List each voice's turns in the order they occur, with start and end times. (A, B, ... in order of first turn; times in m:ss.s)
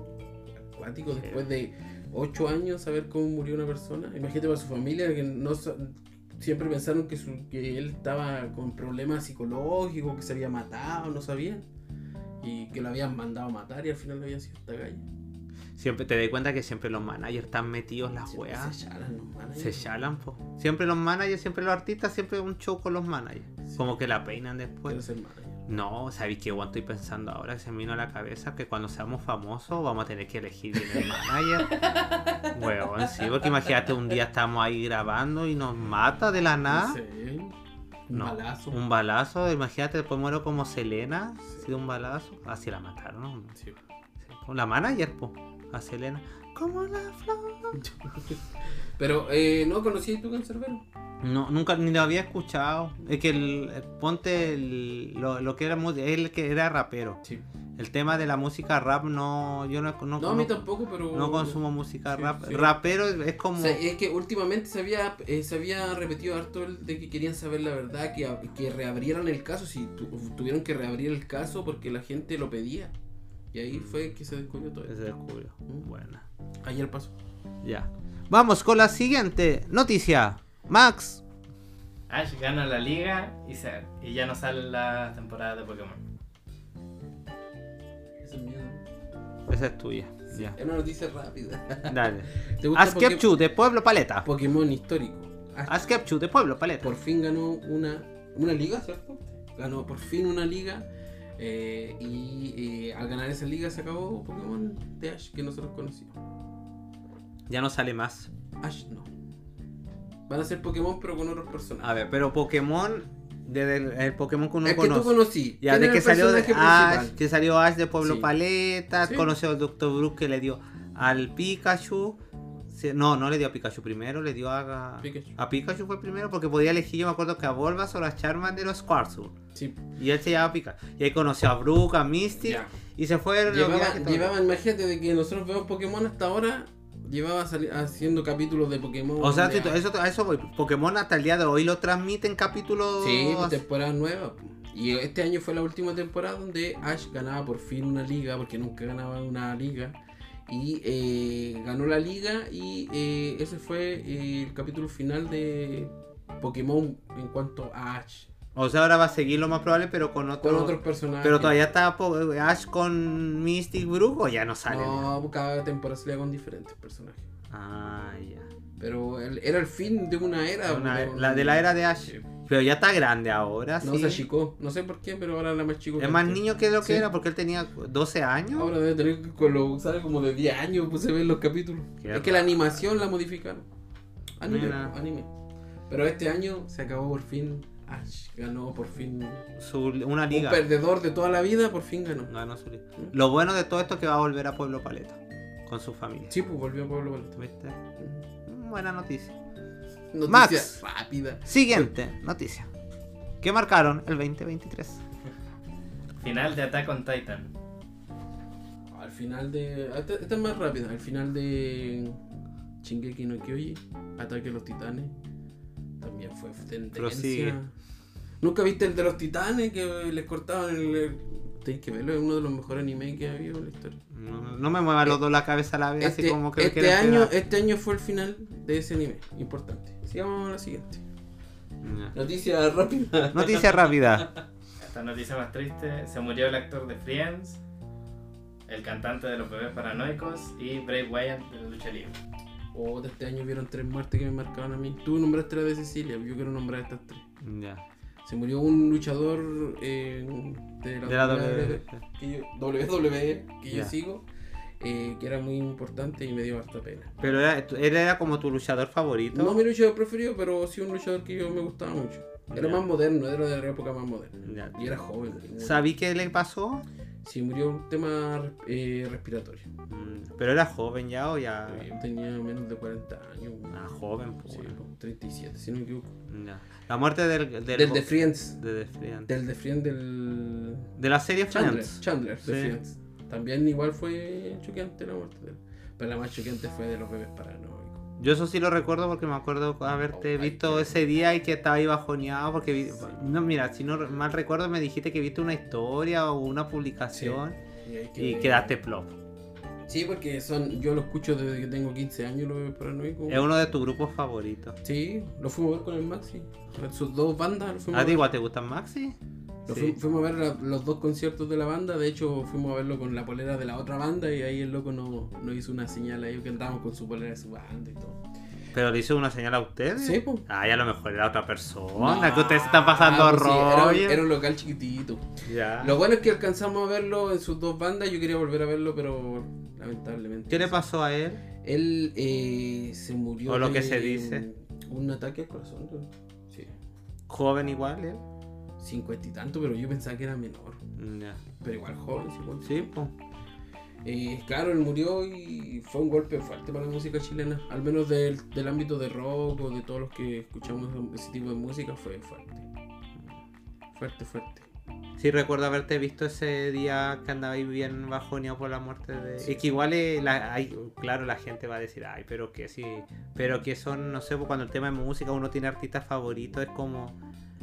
0:00.7-0:11.6 A
0:12.4-0:15.0 A
0:15.8-0:18.7 B
0:18.3-0:19.8 A
0:19.5-0:25.0 B
0:24.9-0:25.6 A
0:25.7-0:31.8 B
0:31.7-0:32.5 A
0:32.4-0:37.0 B
0:36.6-0:37.6 A
0:38.1-0:38.8 A
0:38.1-0:43.5 B
0:44.3-0:47.8 B
0:47.7-0:48.4 A
0:49.0-0:50.8 A
0:51.2-0:57.2 B
0:57.8-1:00.6 B
1:00.2-1:01.6 A
1:01.1-1:03.8 B
1:02.1-1:02.7 A
1:03.5-1:12.9 A
1:13.5-1:15.0 A
1:13.7-1:14.0 B
1:14.9-1:16.2 B
1:16.6-1:17.1 A
1:17.6-1:21.2 B
1:22.1-1:26.0 C
1:28.2-1:28.8 A
1:29.5-1:30.6 B
1:30.3-1:33.4 A
1:31.9-1:34.3 B
1:34.2-1:35.8 A
1:35.7-1:36.9 B
1:36.8-1:40.8 A
1:41.4-1:46.1 A
1:47.5-1:48.3 B
1:48.6-1:49.1 A
1:50.3-1:51.9 A
1:51.8-2:09.4 B
1:54.6-1:57.2 A
1:58.0-1:58.3 A
1:59.0-1:59.3 A
2:05.0-2:05.4 A
2:09.5-2:09.8 A
2:10.0-2:14.3 B
2:12.4-2:12.7 A
2:13.4-2:19.8 A
2:19.2-2:23.6 B
2:23.0-2:38.3 A
2:38.5-2:45.1 B
2:40.4-2:41.6 A
2:44.7-2:47.2 A
2:47.5-2:48.5 B
2:48.8-2:52.2 A
2:50.6-2:54.2 B
2:53.8-2:57.0 A
2:56.0-2:58.7 B
2:58.5-3:03.6 A
3:02.0-3:02.8 B
3:04.4-3:05.3 A
3:04.4-3:04.9 B
3:05.9-3:09.5 A
3:09.6-3:10.6 B
3:10.3-3:12.3 A
3:12.3-3:16.3 B
3:16.3-3:17.4 A
3:17.4-3:17.8 B
3:18.0-3:18.2 A
3:18.4-3:19.3 B
3:20.1-3:21.9 A
3:20.3-3:20.8 B
3:21.4-3:22.7 B
3:23.4-3:25.0 B
3:26.2-3:27.5 C
3:28.9-3:32.2 A
3:32.8-3:35.1 A
3:36.0-3:37.7 A
3:36.9-3:37.6 B
3:38.4-3:44.0 A
3:44.1-3:47.3 B
3:46.0-3:51.0 A
3:51.8-3:52.1 B
3:52.1-3:54.4 A
3:53.3-3:54.3 B
3:54.8-3:57.6 C
3:58.7-4:02.2 C
4:02.7-4:07.2 A
4:07.4-4:07.8 B
4:08.2-4:14.2 A
4:11.0-4:12.0 B
4:14.8-4:17.1 A
4:17.2-4:19.6 B
4:19.3-4:25.9 A
4:22.5-4:22.8 B
4:24.4-4:25.0 B
4:25.6-4:26.8 B
4:27.2-4:29.7 A
4:29.9-4:31.9 B
4:31.7-4:33.8 A
4:33.7-4:34.8 B
4:34.5-4:36.1 A
4:36.3-4:39.3 B
4:37.7-4:38.6 A
4:39.2-4:40.9 A
4:41.0-4:42.8 B
4:41.5-4:48.0 A
4:48.2-4:57.6 B
4:50.1-4:51.0 A
4:57.1-4:58.7 A
4:58.2-4:59.1 B
4:59.9-5:03.4 A
5:03.3-5:04.8 B
5:04.8-5:08.3 A
5:07.9-5:10.0 B
5:09.6-5:18.2 A
5:18.7-5:24.2 B
5:20.0-5:20.4 A
5:22.0-5:30.7 A
5:25.4-5:26.0 B
5:30.5-5:31.4 B
5:31.6-5:36.7 A
5:33.5-5:34.4 B
5:37.3-5:38.2 B
5:38.8-5:40.8 A
5:41.0-5:41.4 B
5:41.6-5:42.9 A
5:42.6-5:43.1 B
5:44.0-5:52.7 A
5:53.9-5:54.7 A
5:55.2-6:07.2 B
5:59.4-5:59.6 A